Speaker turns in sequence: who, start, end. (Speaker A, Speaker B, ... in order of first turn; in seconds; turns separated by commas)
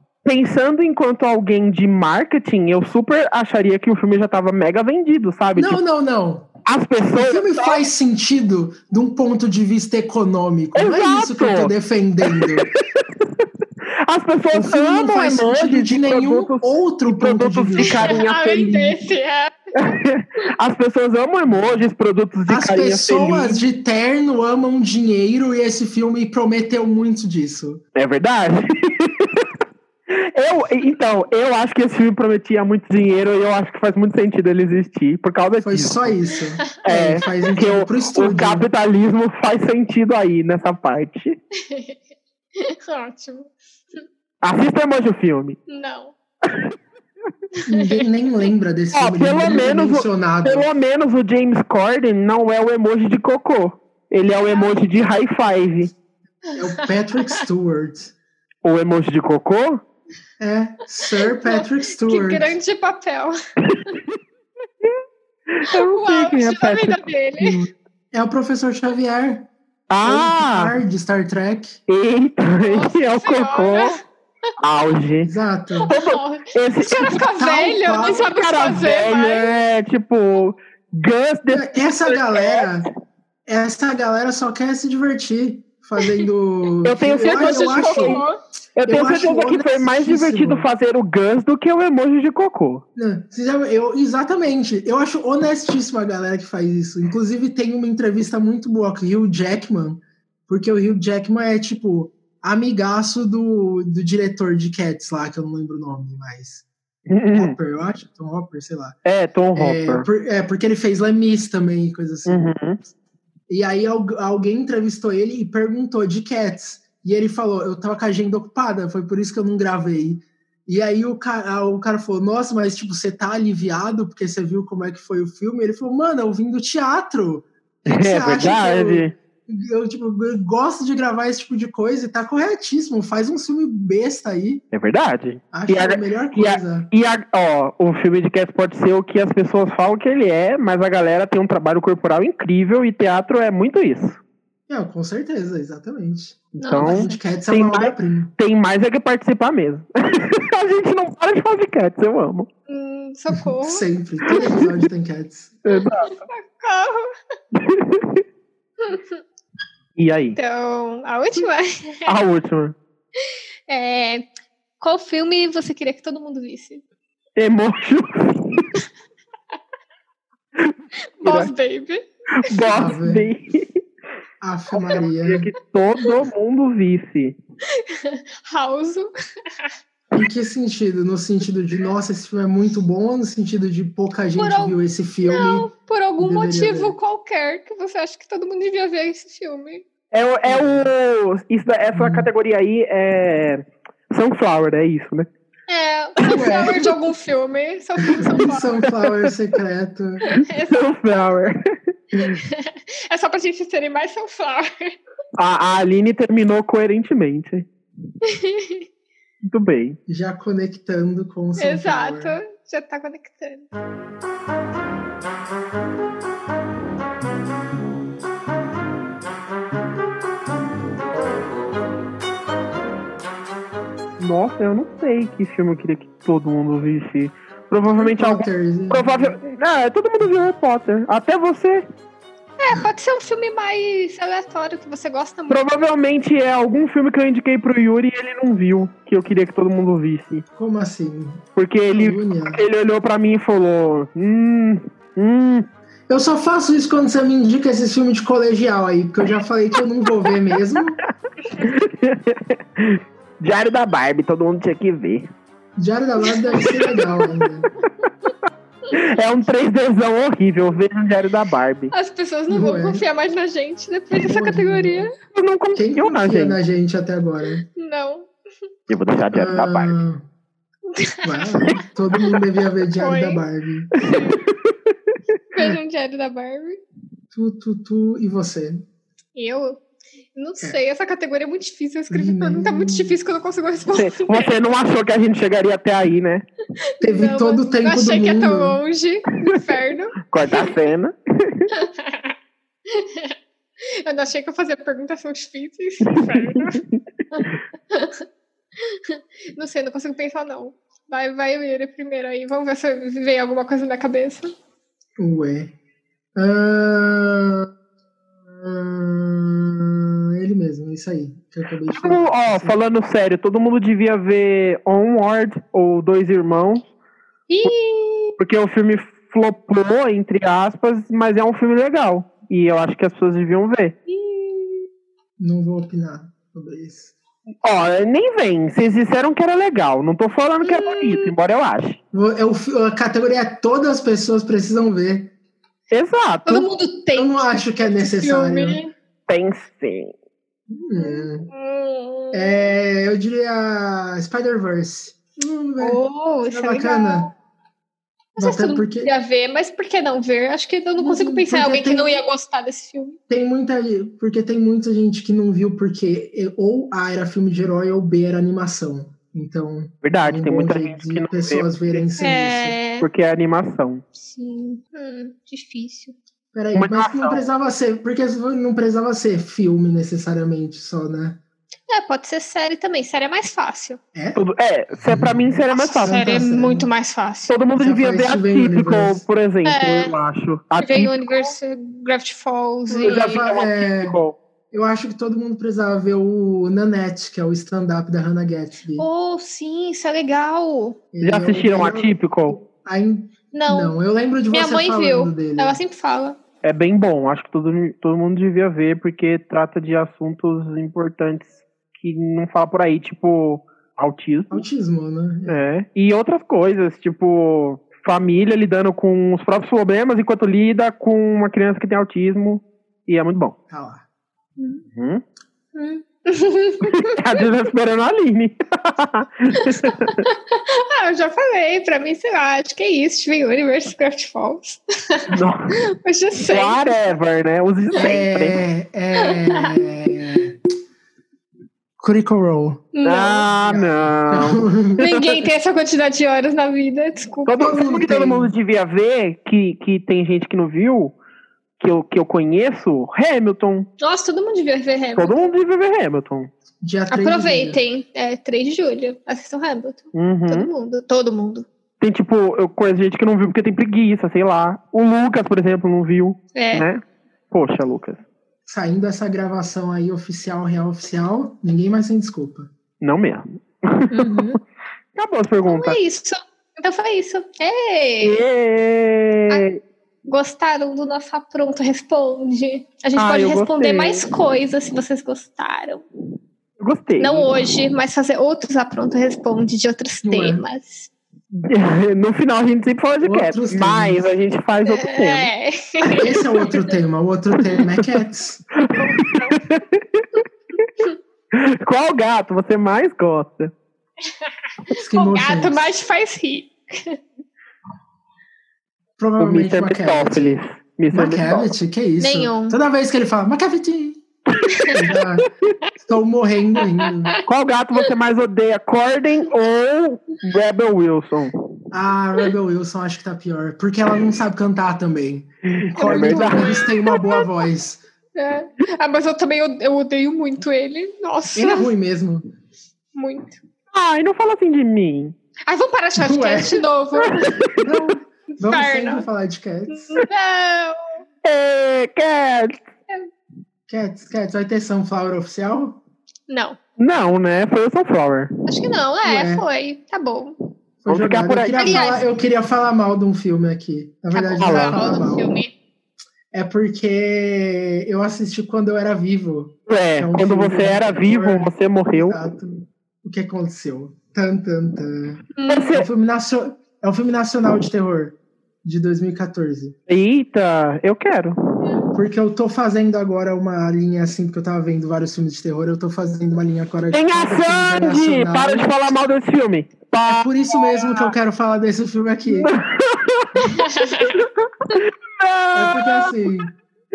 Speaker A: 0.2-5.8, Speaker B: 5.5-6.5, Speaker A: 6.7-7.8, Speaker B: 7.1-12.7, Speaker A: 10.7-11.7, Speaker A: 12.2-13.4, Speaker A: 14.1-19.0, Speaker B: 14.5-18.2, Speaker C: 17.9-19.6, Speaker A: 19.8-23.6, Speaker B: 21.5-21.8, Speaker B: 22.5-27.8, Speaker A: 27.9-29.5, Speaker A: 30.1-36.1, Speaker B: 35.6-38.7, Speaker A: 36.8-41.4, Speaker C: 41.6-42.0, Speaker C: 42.6-44.0, Speaker A: 44.4-45.6, Speaker C: 45.7-46.1, Speaker B: 47.7-50.7, Speaker C: 47.7-48.0, Speaker A: 48.9-55.9, Speaker C: 54.4-54.9, Speaker B: 56.5-58.1, Speaker A: 58.6-59.8, Speaker B: 60.4-62.5, Speaker C: 61.2-63.4, Speaker A: 65.5-67.0, Speaker C: 65.7-67.6, Speaker B: 68.1-69.5, Speaker A: 69.9-70.7, Speaker B: 70.0-71.8, Speaker A: 71.9-74.0, Speaker C: 72.6-74.0, Speaker A: 74.6-75.3, Speaker B: 75.2-75.9, Speaker C: 75.8-79.5, Speaker A: 75.9-77.2, Speaker B: 77.3-78.8, Speaker A: 78.3-82.7, Speaker B: 81.5-82.9, Speaker B: 83.5-88.2, Speaker C: 86.0-86.3, Speaker A: 86.8-88.2, Speaker C: 87.2-88.4, Speaker A: 88.8-92.8, Speaker B: 88.8-90.7, Speaker B: 93.0-106.7, Speaker A: 107.1-107.5, Speaker B: 107.3-109.0, Speaker A: 109.0-110.1, Speaker B: 109.5-112.5, Speaker A: 112.2-112.8, Speaker B: 113.5-134.6, Speaker A: 127.9-129.1, Speaker A: 134.7-144.2, Speaker B: 135.5-136.9, Speaker B: 144.7-148.3, Speaker C: 146.6-147.2, Speaker A: 146.6-152.5, Speaker C: 152.7-153.9, Speaker B: 153.6-155.6, Speaker A: 154.3-154.6, Speaker A: 155.7-156.2, Speaker C: 155.7-157.1, Speaker A: 157.6-158.2, Speaker C: 158.8-159.2, Speaker A: 160.0-160.4, Speaker C: 160.3-162.1, Speaker A: 162.1-162.8, Speaker C: 163.3-164.3, Speaker C: 164.8-166.8, Speaker A: 167.4-168.6, Speaker A: 170.6-171.5, Speaker C: 171.2-172.7, Speaker A: 172.4-173.8, Speaker B: 172.7-173.3, Speaker B: 174.4-175.5, Speaker A: 174.8-177.4, Speaker C: 177.7-179.7, Speaker B: 180.1-186.9, Speaker C: 184.4-189.8, Speaker A: 190.1-195.3, Speaker B: 190.4-190.9, Speaker B: 191.9-192.3, Speaker C: 195.7-198.8, Speaker B: 196.3-196.9, Speaker B: 198.2-200.3, Speaker A: 198.8-199.3, Speaker C: 200.2-200.8, Speaker A: 200.7-201.6, Speaker C: 202.4-204.9, Speaker A: 205.4-207.7, Speaker C: 208.3-208.8, Speaker A: 209.4-210.0, Speaker B: 210.1-212.4, Speaker C: 211.6-213.7, Speaker A: 224.2-231.8, Speaker B: 227.9-229.4, Speaker C: 232.6-235.6, Speaker A: 235.5-240.4, Speaker B: 240.6-242.6, Speaker A: 241.6-245.7, Speaker B: 246.1-251.0, Speaker A: 251.6-255.3, Speaker B: 255.8-257.7, Speaker C: 256.3-257.0, Speaker A: 258.9-261.9, Speaker C: 261.9-265.1, Speaker B: 262.5-263.0, Speaker B: 264.1-265.1, Speaker A: 265.3-266.6, Speaker B: 265.7-267.6, Speaker C: 267.8-268.3, Speaker A: 268.9-269.9, Speaker B: 269.3-270.2, Speaker C: 270.9-271.7, Speaker B: 271.2-273.9, Speaker C: 272.9-273.4, Speaker C: 274.0-274.4, Speaker A: 274.1-274.9, Speaker C: 275.5-276.8, Speaker B: 277.3-278.9, Speaker C: 279.4-279.8, Speaker C: 280.3-284.5, Speaker B: 282.1-283.2, Speaker A: 283.9-286.4, Speaker C: 286.9-290.7, Speaker B: 287.0-288.8, Speaker A: 290.3-291.7, Speaker C: 291.7-292.3, Speaker C: 292.9-293.3, Speaker C: 293.8-296.8, Speaker A: 296.1-296.8, Speaker C: 297.3-298.2, Speaker C: 298.8-304.5, Speaker B: 305.2-305.7, Speaker B: 306.4-307.7, Speaker B: 308.5-312.7, Speaker A: 311.9-316.9, Speaker C: 317.5-318.3, Speaker A: 318.4-323.9, Speaker C: 324.1-324.9, Speaker B: 325.4-327.1, Speaker A: 327.6-332.0, Speaker C: 330.6-331.3, Speaker B: 332.1-335.3, Speaker A: 335.9-336.7, Speaker C: 336.4-338.9, Speaker B: 337.1-338.8, Speaker A: 339.3-340.1, Speaker B: 340.7-341.5, Speaker C: 340.9-342.6, Speaker B: 342.3-346.0, Speaker C: 345.8-347.3, Speaker B: 346.5-347.3, Speaker C: 348.3-353.2, Speaker B: 348.4-349.1, Speaker B: 351.0-352.1, Speaker B: 353.3-362.8, Speaker A: 360.0-361.8, Speaker C: 362.2-363.1, Speaker A: 363.0-364.0, Speaker C: 364.1-366.1, Speaker B: 366.5-371.4, Speaker A: 366.7-367.5, Speaker C: 371.9-374.0, Speaker B: 374.1-374.4, Speaker A: 374.4-376.2, Speaker B: 375.0-375.5, Speaker C: 375.7-377.5, Speaker B: 376.0-376.9, Speaker A: 377.5-381.5, Speaker B: 377.8-379.2, Speaker C: 379.6-380.1, Speaker C: 380.8-383.4, Speaker A: 382.9-384.4, Speaker B: 383.0-384.2, Speaker B: 384.7-389.1, Speaker C: 389.0-391.0, Speaker B: 391.1-395.8, Speaker A: 391.2-392.6, Speaker C: 393.5-394.0, Speaker C: 394.5-396.4, Speaker A: 396.6-404.6, Speaker B: 404.5-405.7, Speaker A: 405.5-413.6, Speaker B: 413.7-414.1, Speaker C: 414.6-414.8, Speaker A: 414.9-415.2, Speaker C: 415.7-417.2, Speaker A: 416.9-420.2, Speaker C: 419.6-425.3, Speaker A: 425.3-425.7, Speaker C: 426.0-427.0, Speaker A: 426.4-428.6, Speaker B: 427.9-430.6, Speaker C: 429.2-429.7, Speaker B: 432.0-432.9, Speaker C: 432.9-433.5, Speaker A: 433.0-435.3, Speaker B: 433.6-435.0, Speaker C: 435.0-437.9, Speaker A: 437.5-441.1, Speaker B: 437.5-438.5, Speaker A: 441.8-443.9, Speaker C: 444.0-445.5, Speaker A: 445.1-446.5, Speaker B: 446.8-447.8, Speaker C: 447.1-451.7, Speaker A: 450.1-450.7, Speaker A: 452.0-458.2, Speaker C: 456.5-456.9, Speaker B: 458.6-462.7, Speaker A: 463.0-464.4, Speaker C: 464.1-464.6, Speaker A: 465.1-466.0, Speaker C: 465.6-468.4, Speaker A: 468.2-469.8, Speaker C: 470.2-476.1, Speaker A: 473.1-474.3, Speaker A: 476.8-477.5, Speaker C: 477.2-481.1, Speaker B: 480.2-480.6, Speaker A: 481.6-485.5, Speaker B: 483.2-484.2, Speaker C: 484.9-486.8, Speaker B: 486.1-488.6, Speaker A: 488.8-490.2, Speaker C: 488.9-489.6, Speaker A: 491.5-493.7, Speaker B: 494.9-495.9, Speaker C: 494.9-497.2, Speaker B: 499.2-500.6, Speaker A: 499.4-501.7, Speaker B: 501.1-504.2, Speaker C: 502.2-502.8, Speaker A: 504.9-505.2, Speaker B: 504.9-505.5, Speaker B: 506.0-507.4, Speaker C: 506.8-507.4, Speaker A: 507.4-511.6, Speaker B: 511.9-518.0, Speaker C: 516.0-517.2, Speaker A: 516.0-516.8, Speaker C: 518.4-521.9, Speaker B: 521.5-522.5, Speaker C: 523.1-523.6, Speaker A: 523.9-525.3, Speaker C: 525.7-527.5, Speaker B: 526.2-526.9, Speaker A: 527.5-527.9, Speaker B: 527.8-530.2, Speaker C: 528.5-529.3, Speaker C: 529.9-531.2, Speaker A: 531.4-532.9, Speaker B: 533.9-536.0, Speaker C: 536.5-536.8, Speaker A: 537.0-538.5, Speaker C: 538.6-540.5, Speaker B: 539.2-539.6, Speaker B: 541.0-545.5, Speaker A: 541.1-542.0, Speaker C: 541.8-542.2, Speaker C: 544.3-545.7, Speaker A: 544.6-545.0, Speaker B: 546.5-560.0, Speaker A: 549.9-552.4, Speaker C: 555.5-555.9, Speaker A: 555.7-556.0, Speaker A: 560.1-561.5, Speaker B: 562.1-568.9, Speaker A: 567.1-571.3, Speaker B: 570.3-572.7, Speaker A: 572.6-576.4, Speaker C: 573.6-574.3, Speaker B: 575.7-576.7